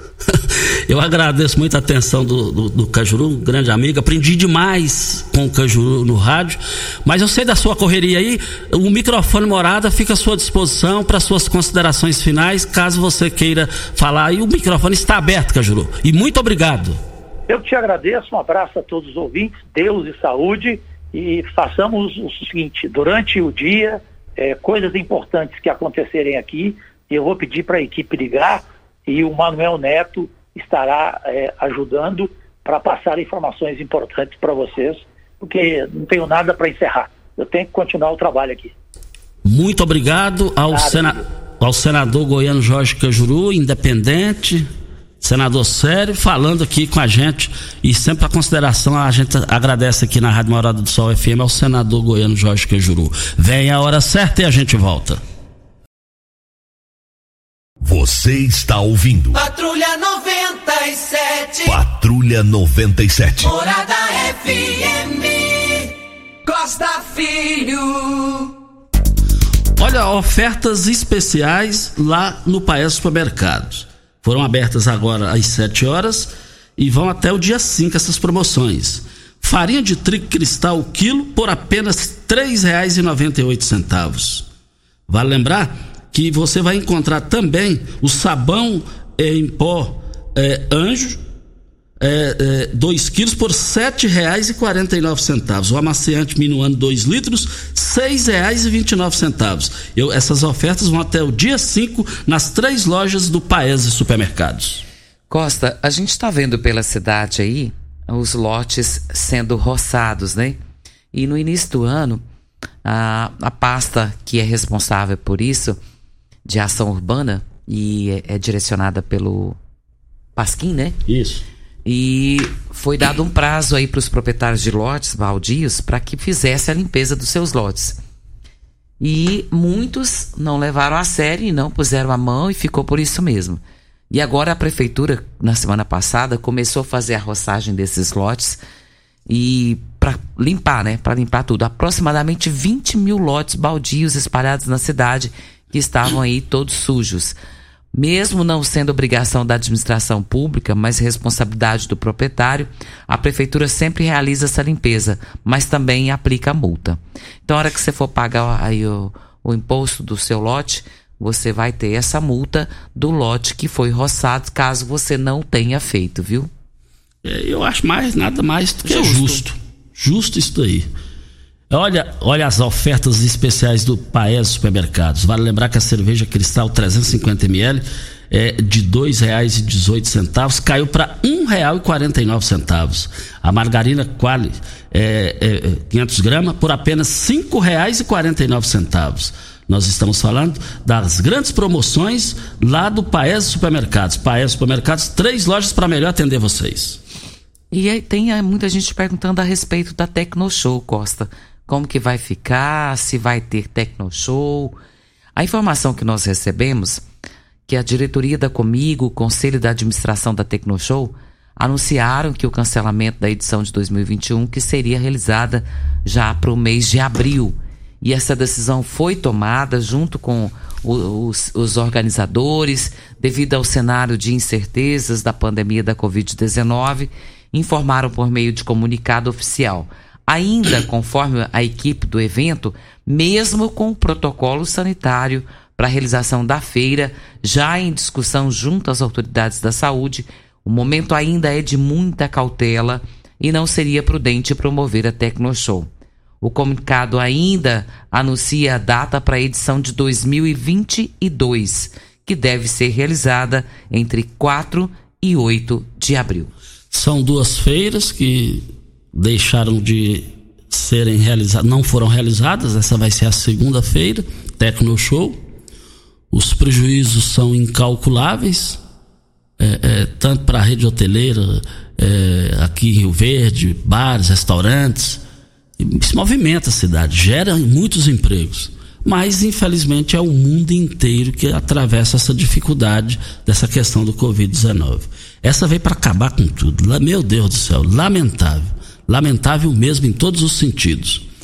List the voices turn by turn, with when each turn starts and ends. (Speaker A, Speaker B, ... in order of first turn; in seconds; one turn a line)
Speaker A: 0.3-17.0
Speaker B: 17.5-38.7
Speaker A: 39.4-44.7
Speaker B: 40.7-41.2
Speaker A: 45.2-55.2
Speaker C: 57.8-59.4
Speaker D: 59.3-61.8
Speaker C: 61.6-63.5
Speaker D: 63.4-68.5
Speaker A: 69.8-84.5
Speaker A: 85.1-91.2
Speaker A: 92.0-104.8
Speaker E: 105.3-110.6
Speaker E: 111.1-112.2
Speaker E: 112.8-115.8
Speaker E: 116.5-119.6
Speaker E: 120.4-121.0
Speaker A: 121.1-121.4
Speaker E: 121.8-128.0
Speaker E: 129.0-138.6
Speaker E: 139.3-147.4
Speaker E: 147.9-166.5
Speaker A: 167.2-170.9
Speaker E: 168.9-169.4
Speaker A: 171.7-197.0
Speaker E: 197.7-204.8
Speaker E: 205.4-207.0
Speaker E: 207.7-245.9
Speaker E: 246.4-256.5
Speaker A: 256.9-265.4
Speaker A: 266.3-268.8
Speaker A: 269.6-275.2
Speaker A: 275.8-291.3